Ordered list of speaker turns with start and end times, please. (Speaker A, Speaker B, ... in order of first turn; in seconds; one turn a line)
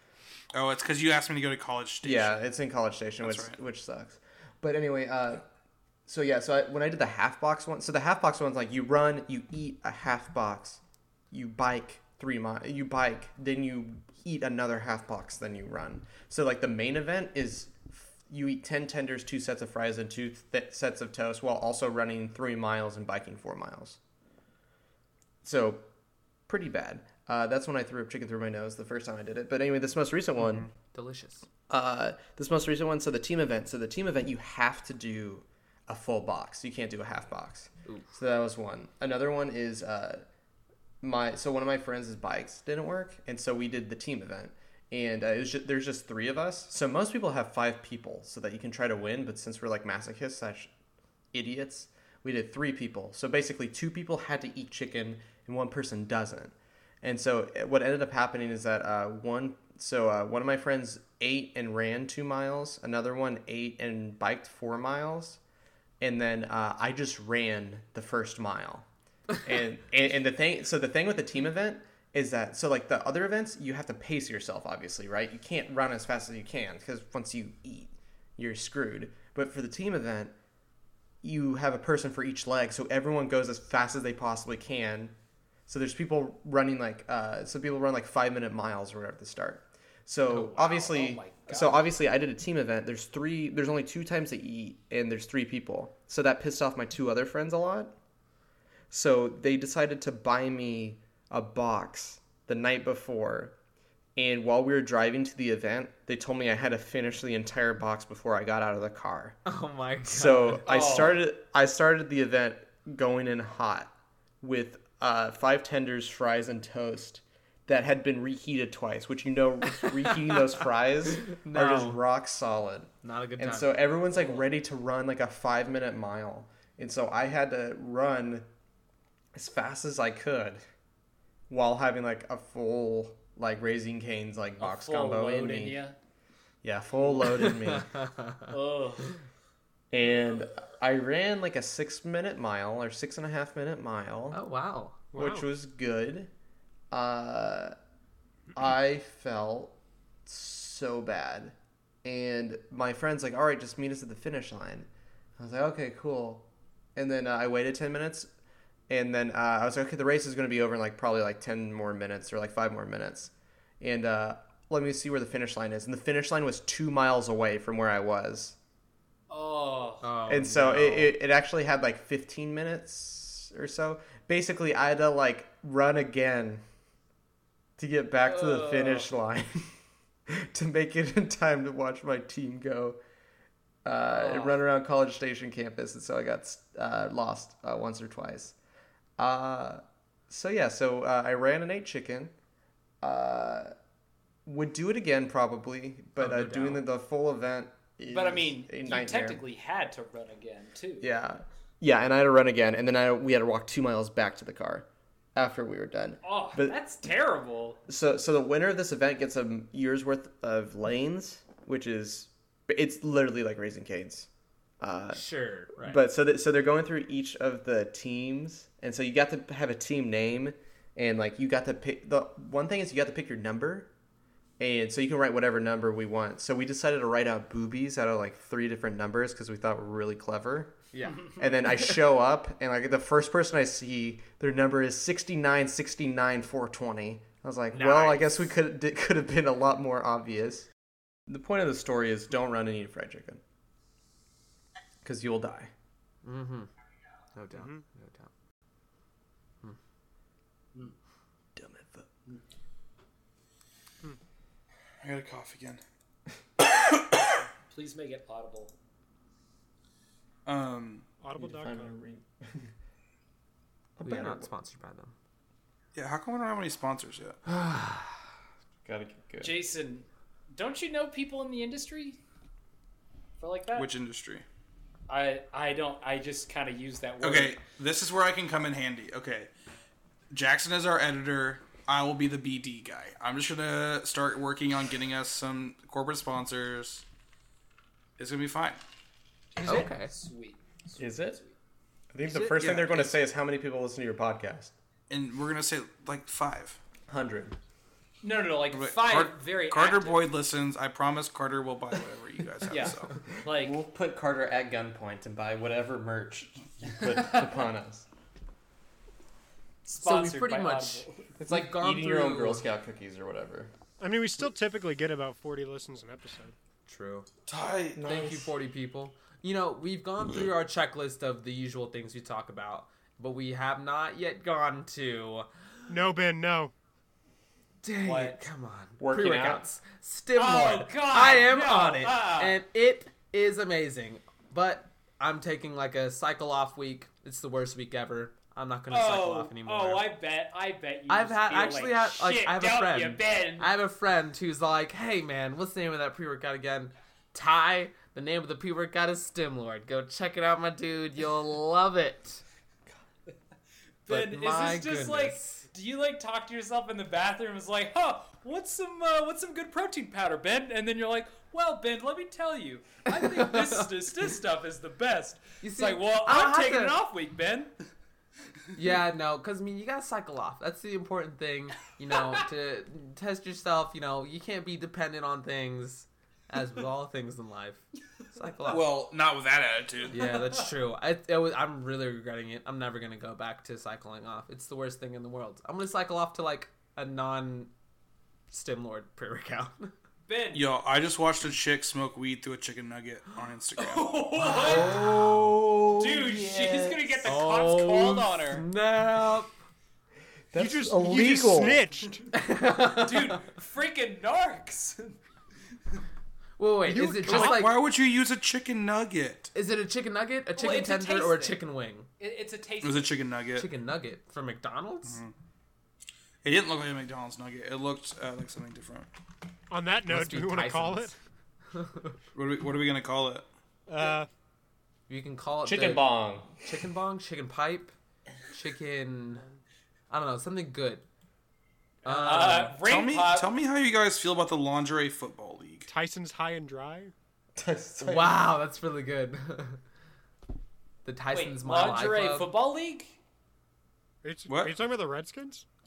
Speaker A: 0.5-2.4
Speaker B: 2.0-5.5
Speaker A: 3.2-3.5
Speaker B: 6.1-24.0
Speaker B: 25.4-25.9
Speaker B: 26.5-30.7
Speaker C: 30.9-31.5
Speaker B: 31.7-40.2
Speaker B: 41.0-50.7
Speaker B: 51.3-65.4
Speaker B: 66.0-68.9
Speaker B: 69.4-80.3
Speaker B: 81.2-85.1
Speaker B: 85.7-97.9
Speaker D: 90.3-91.9
Speaker B: 98.9-103.5
Speaker B: 104.2-109.4
Speaker C: 109.5-110.7
Speaker B: 110.1-128.5
Speaker D: 110.7-111.2
Speaker C: 121.2-122.0
Speaker C: 123.0-123.8
Speaker B: 129.3-130.6
Speaker B: 131.5-135.8
Speaker D: 134.6-135.9
Speaker B: 136.6-137.9
Speaker C: 137.8-138.4
Speaker D: 138.5-139.2
Speaker B: 139.9-144.4
Speaker C: 144.3-145.0
Speaker E: 145.1-145.5
Speaker B: 145.2-146.3
Speaker B: 146.9-147.8
Speaker B: 148.5-149.8
Speaker B: 150.3-158.3
Speaker B: 158.9-168.6
Speaker D: 169.3-170.1
Speaker C: 170.0-171.1
Speaker B: 170.3-176.6
Speaker B: 177.8-179.7
Speaker D: 178.2-179.1
Speaker B: 180.3-183.0
Speaker B: 183.8-188.6
Speaker D: 184.1-184.6
Speaker B: 189.2-192.3
Speaker B: 193.0-193.7
Speaker B: 194.5-199.4
Speaker C: 196.2-196.8
Speaker D: 198.1-201.1
Speaker B: 201.0-206.8
Speaker D: 206.2-207.8
Speaker B: 207.9-214.3
Speaker B: 214.8-215.2
Speaker C: 215.1-216.0
Speaker B: 215.8-223.9
Speaker B: 224.6-230.8
Speaker C: 230.9-232.0
Speaker B: 231.4-240.7
Speaker C: 237.7-238.5
Speaker B: 241.3-243.4
Speaker B: 245.0-245.7
Speaker C: 246.2-246.7
Speaker C: 247.3-248.3
Speaker E: 247.5-247.8
Speaker B: 251.6-252.1
Speaker A: 255.0-255.8
Speaker D: 257.7-258.7
Speaker A: 260.5-261.1
Speaker E: 261.2-262.0
Speaker B: 261.4-262.7
Speaker B: 264.0-264.5
Speaker C: 264.0-265.1
Speaker A: 265.9-267.4
Speaker C: 267.5-268.2
Speaker B: 268.9-269.6
Speaker D: 269.4-272.2
Speaker D: 273.4-273.9
Speaker A: 273.7-274.4
Speaker D: 275.1-277.6
Speaker A: 277.2-279.5
Speaker A: 280.3-287.1
Speaker A: 288.2-288.8
Speaker D: 289.6-291.5
Speaker C: 289.6-290.1
Speaker B: 291.0-291.4
Speaker B: 292.1-294.7
Speaker C: 292.2-293.1
Speaker A: 292.6-293.0
Speaker A: 295.1-296.8
Speaker B: 297.1-297.6
Speaker D: 298.2-300.2
Speaker A: 298.7-303.1
Speaker D: 302.7-303.8
Speaker B: 303.3-308.1
Speaker D: 309.9-311.3
Speaker C: 310.0-312.6
Speaker B: 311.4-313.7
Speaker E: 314.0-316.5
Speaker C: 316.9-317.3
Speaker A: 317.5-318.0
Speaker B: 317.9-318.5
Speaker C: 318.0-325.5
Speaker E: 325.9-326.7
Speaker C: 327.8-340.1
Speaker D: 328.0-328.5
Speaker B: 329.0-329.6
Speaker D: 330.4-332.6
Speaker D: 338.9-343.7
Speaker C: 341.1-352.4
Speaker D: 354.1-367.7
Speaker C: 354.1-355.6
Speaker C: 363.4-363.8
Speaker C: 365.6-367.0
Speaker C: 368.8-378.9
Speaker A: 378.7-380.2
Speaker C: 380.1-387.7
Speaker D: 380.2-380.7
Speaker C: 388.5-389.9
Speaker D: 390.3-390.6
Speaker A: 390.5-394.2
Speaker D: 393.8-395.0
Speaker C: 394.4-395.6
Speaker B: 394.5-397.4
Speaker D: 396.0-398.7
Speaker C: 397.2-399.5
Speaker B: 400.5-401.9
Speaker E: 400.6-402.2
Speaker C: 402.3-403.4
Speaker D: 403.0-405.2
Speaker C: 406.6-407.8
Speaker E: 406.9-407.6
Speaker A: 407.2-409.5
Speaker C: 409.5-412.1
Speaker D: 410.6-411.6
Speaker D: 412.2-413.1
Speaker A: 412.8-413.7
Speaker C: 413.6-415.2
Speaker A: 415.1-415.3
Speaker A: 416.4-419.1
Speaker E: 419.7-421.1
Speaker C: 420.1-421.1
Speaker C: 421.7-422.2
Speaker A: 422.4-423.5
Speaker E: 423.9-424.3
Speaker C: 425.1-427.9
Speaker B: 425.6-426.6
Speaker C: 428.5-429.4
Speaker C: 430.1-431.1
Speaker C: 432.1-432.8
Speaker D: 432.1-433.5
Speaker A: 432.8-435.9
Speaker E: 435.9-437.1
Speaker B: 437.6-438.5
Speaker C: 438.0-439.8
Speaker C: 441.1-442.5
Speaker D: 441.3-443.2
Speaker E: 444.2-445.6
Speaker A: 444.5-444.7